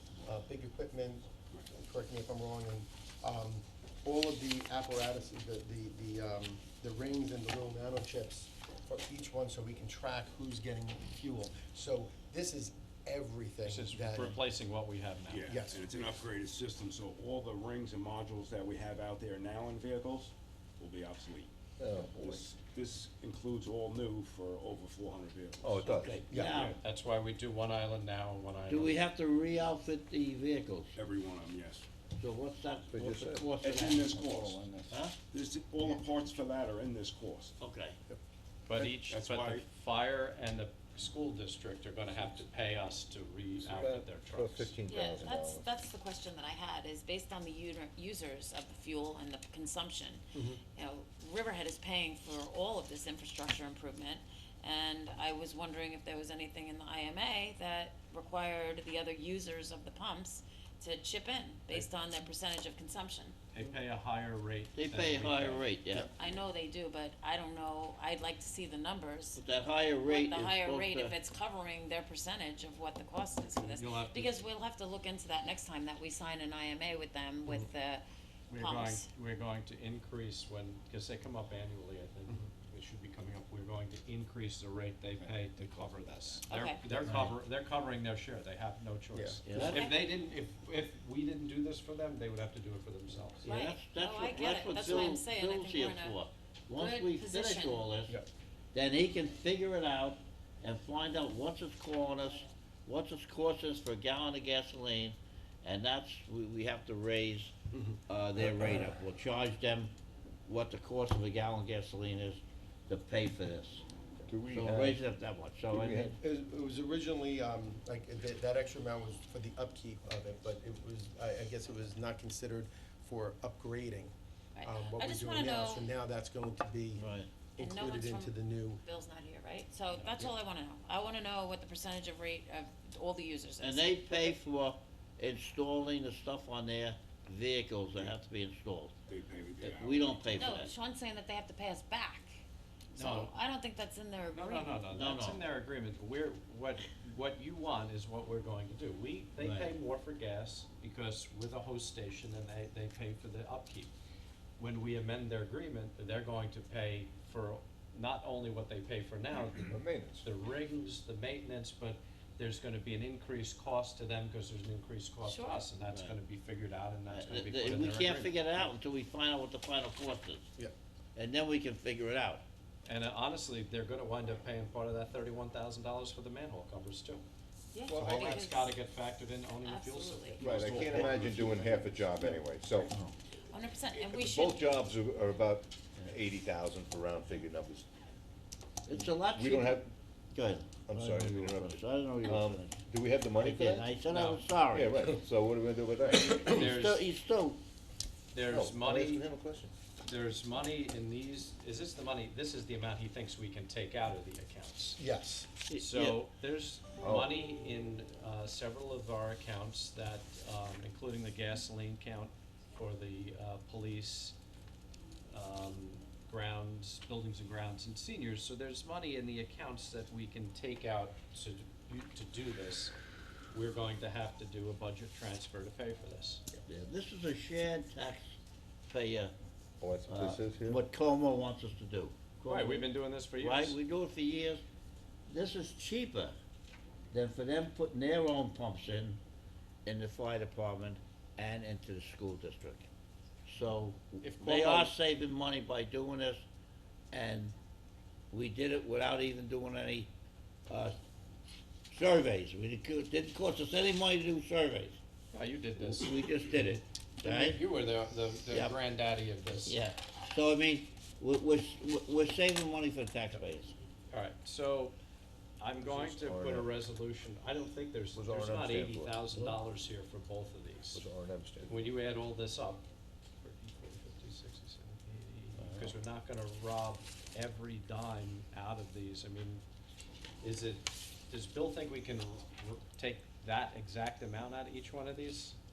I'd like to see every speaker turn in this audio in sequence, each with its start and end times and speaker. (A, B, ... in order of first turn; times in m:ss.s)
0:00.2-0:14.4 A
0:13.7-0:15.5 B
0:15.3-0:21.5 C
0:15.5-0:15.8 A
0:21.8-0:22.4 D
0:22.1-0:26.0 C
0:25.6-0:26.2 D
0:25.8-0:26.8 E
0:26.3-0:26.7 A
0:26.5-0:29.0 B
0:28.7-0:31.0 E
0:31.0-0:31.9 C
0:32.2-0:34.2 E
0:32.9-0:33.5 D
0:33.6-0:34.7 C
0:34.1-0:35.0 D
0:34.9-0:35.2 E
0:35.3-0:37.6 C
0:37.6-0:38.0 E
0:38.7-0:44.7 B
0:38.8-0:39.6 C
0:43.6-0:45.6 D
0:44.9-1:03.4 F
1:03.5-1:05.7 B
1:04.8-1:06.1 E
1:06.2-1:09.4 F
1:09.4-1:11.2 E
1:10.0-1:19.1 F
1:13.6-1:14.4 B
1:18.5-1:33.5 B
1:26.5-1:27.0 F
1:27.0-1:27.3 E
1:29.1-1:29.7 A
1:29.5-1:29.8 E
1:29.6-1:30.1 F
1:33.4-1:38.2 E
1:33.4-1:36.2 F
1:36.7-1:37.9 F
1:38.7-1:47.6 E
1:47.7-1:48.0 A
1:48.1-1:49.9 E
1:50.5-1:53.8 E
1:54.3-1:55.0 D
1:54.5-1:56.2 E
1:55.7-1:56.2 D
1:56.2-2:08.8 A
2:04.6-2:05.9 F
2:07.0-2:07.3 E
2:07.6-2:14.4 F
2:10.0-2:10.3 B
2:13.6-2:18.9 E
2:19.1-2:20.4 C
2:19.6-2:20.7 E
2:20.3-2:22.4 F
2:22.9-2:23.3 B
2:23.0-2:25.0 F
2:24.3-2:33.9 B
2:24.9-2:25.4 E
2:29.4-2:29.7 E
2:34.6-2:48.7 B
2:39.7-2:40.3 D
2:45.2-2:45.7 F
2:45.9-2:46.2 E
2:47.1-2:50.5 E
2:51.2-2:52.4 E
2:52.8-2:57.2 B
2:57.7-2:58.7 F
2:57.9-2:58.3 D
2:57.9-2:58.4 A
2:58.0-3:01.1 B
2:59.6-3:01.0 F
3:00.4-3:02.9 D
3:00.4-3:02.0 C
3:02.9-3:03.1 E
3:03.5-3:04.7 F
3:04.1-3:07.9 D
3:08.9-3:09.8 E
3:08.9-3:09.9 D
3:10.3-3:12.8 E
3:10.9-3:13.9 D
3:13.4-3:14.9 E
3:14.1-3:14.4 B
3:14.7-3:16.6 D
3:16.3-3:17.6 E
3:16.4-3:17.0 B
3:18.3-3:19.2 B
3:18.5-3:19.7 D
3:20.0-3:25.0 B
3:25.0-3:25.5 A
3:25.7-3:26.2 E
3:25.8-3:34.4 B
3:27.0-3:27.3 D
3:35.3-3:42.9 B
3:43.5-3:46.4 B
3:46.7-3:48.4 E
3:48.9-3:49.3 E
3:49.8-3:50.8 D
3:50.1-3:54.6 E
3:52.5-3:53.8 B
3:55.3-3:56.4 E
3:57.1-3:59.2 E
3:59.9-4:02.9 E
4:03.5-4:06.4 E
4:04.2-4:04.9 B
4:07.1-4:07.5 E
4:08.3-4:10.1 E
4:10.7-4:11.0 E
4:11.9-4:15.0 E
4:15.3-4:16.7 B
4:15.8-4:17.6 E
4:17.2-4:19.8 B
4:18.5-4:18.8 E
4:19.6-4:23.8 E
4:24.1-4:25.0 B
4:25.6-4:31.1 B
4:25.9-4:26.7 D
4:28.2-4:29.6 D
4:30.9-4:31.9 D
4:31.6-4:32.8 B
4:33.4-4:39.6 B
4:35.6-4:35.9 D
4:40.4-4:45.6 B